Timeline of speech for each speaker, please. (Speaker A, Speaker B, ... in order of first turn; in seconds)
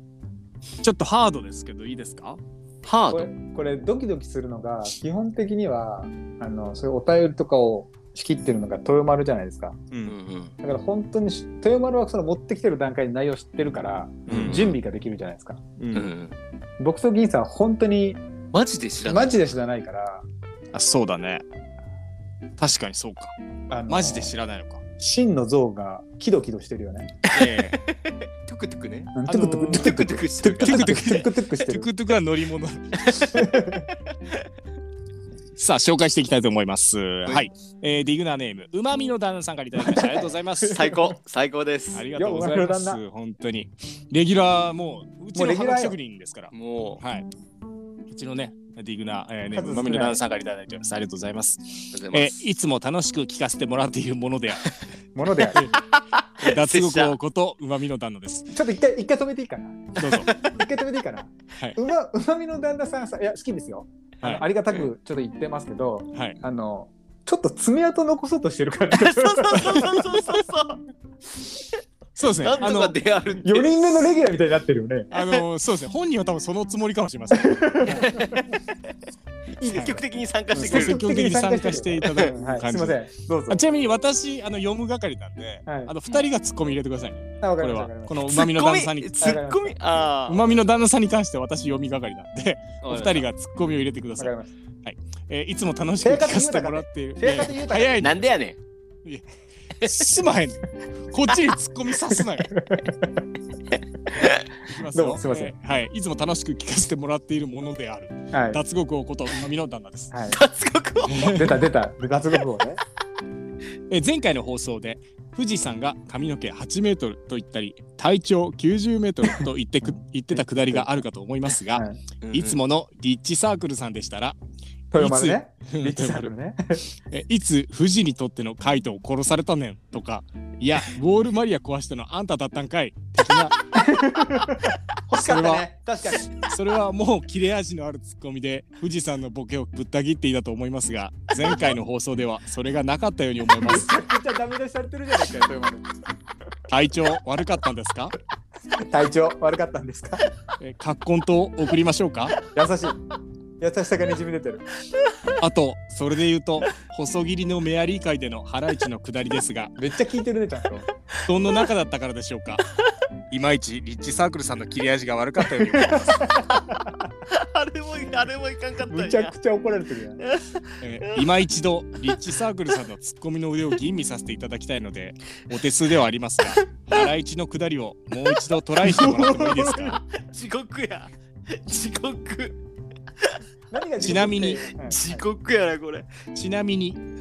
Speaker A: 0.8-2.4, 9.9-10.2, 14.3-14.7, 15.8-16.1, 20.7-21.4, 22.6-23.4, 23.9-24.8, 27.3-27.8, 29.3-30.0, 30.6-33.4, 35.6-40.8, 41.9-47.3, 48.1-54.7, 56.4-58.5, 60.0-60.3, 72.2-73.0, 75.1-78.0, 79.7-80.0, 80.6-89.4, 90.3-98.2, 99.8-102.5, 104.7-110.1, 111.0-111.6, 113.9-124.4, 125.0-126.3, 127.1-133.6, 135.1-135.7, 136.3-144.0, 146.7-148.2, 150.6-152.3, 155.4-159.7, 161.3-162.6, 163.3-166.3, 170.8-180.0, 184.0-184.7, 186.3-187.0
Speaker B: 2.8-3.3, 10.1-10.5, 14.3-14.8, 15.9-16.4, 18.5-19.5, 27.3-31.2, 33.1-33.4, 40.7-42.1, 46.5-47.0, 51.9-52.4, 55.8-57.2, 60.1-60.5, 68.9-70.8, 72.4-74.1, 77.8-78.6, 79.6-81.0, 88.3-90.5, 92.8-93.3, 98.0-98.6, 104.2-104.4, 110.3-111.4, 122.2-122.6, 161.2-161.7, 167.3-169.3, 170.2-171.3, 176.5-177.1, 179.0-182.6, 184.8-186.2
Speaker C: 3.1-9.8, 10.6-15.7, 16.8-18.2, 19.1-20.2, 23.7-24.4, 25.0-27.2, 29.1-31.9, 33.3-33.9, 39.8-41.1, 42.1-43.0, 45.4-46.0, 49.5-50.2, 55.1-55.7, 58.5-70.1, 73.4-75.1, 77.3-78.5, 79.6-83.6, 85.7-85.9, 87.4-88.4, 89.2-90.1, 94.2-94.5, 96.0-98.0, 102.5-103.2, 104.9-105.5, 108.3-108.6, 110.1-110.4, 111.2-112.8, 119.8-121.0, 121.7-122.0, 124.9-126.9, 133.8-136.3, 143.6-145.8, 148.8-150.3, 152.5-153.0, 153.6-154.7, 159.8-160.9, 165.7-167.0, 168.9-170.2, 179.0-179.4, 183.7-185.2